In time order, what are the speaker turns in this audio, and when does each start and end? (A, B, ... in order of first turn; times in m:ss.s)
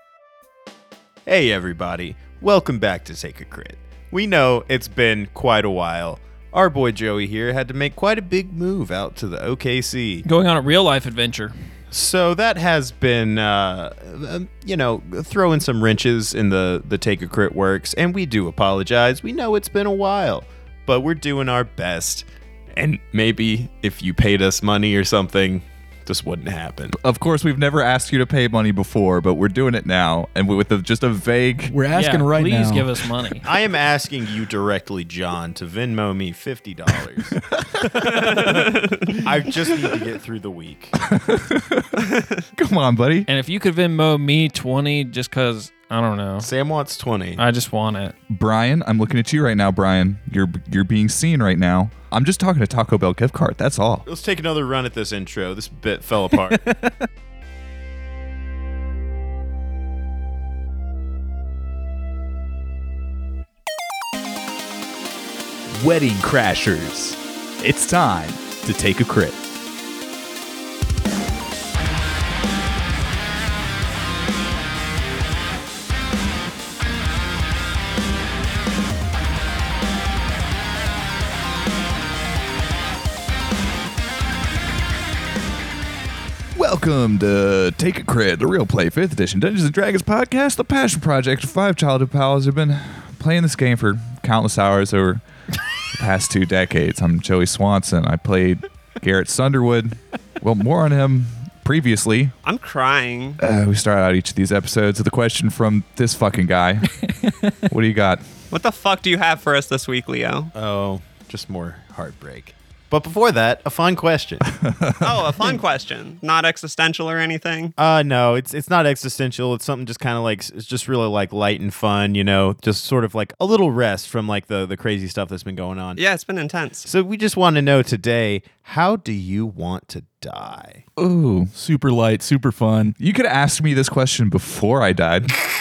0:01.3-0:10.2 A
0:10.2-0:11.5 B
0:11.9-0:27.0 A
0:27.0-0:31.7 C
0:31.7-0:32.9 D
0:31.9-0:33.5 B
0:33.4-0:37.4 A
0:37.6-0:38.5 C
0:38.2-0:39.2 E
0:39.2-0:41.0 A
0:41.0-0:42.0 C
0:42.6-0:43.3 C
0:43.3-0:46.5 B
0:46.4-0:47.4 A
0:47.4-0:48.2 B
0:48.3-0:54.1 C
0:54.1-0:56.6 A
0:56.6-0:56.9 D
1:05.8-1:07.2 A
1:07.6-1:08.5 C
1:08.6-1:09.4 A
1:26.6-1:35.2 C
1:35.8-1:42.4 C
1:42.4-1:43.4 E
1:43.4-1:47.0 C
1:47.7-1:48.2 C
1:48.5-1:50.5 E
1:50.6-1:54.5 A
1:54.6-1:55.3 C
1:55.0-1:57.7 E
1:57.8-2:06.0 A
2:06.0-2:06.9 E
2:06.9-2:10.8 A
2:11.0-2:11.5 C
2:11.5-2:13.0 D
2:13.0-2:15.4 C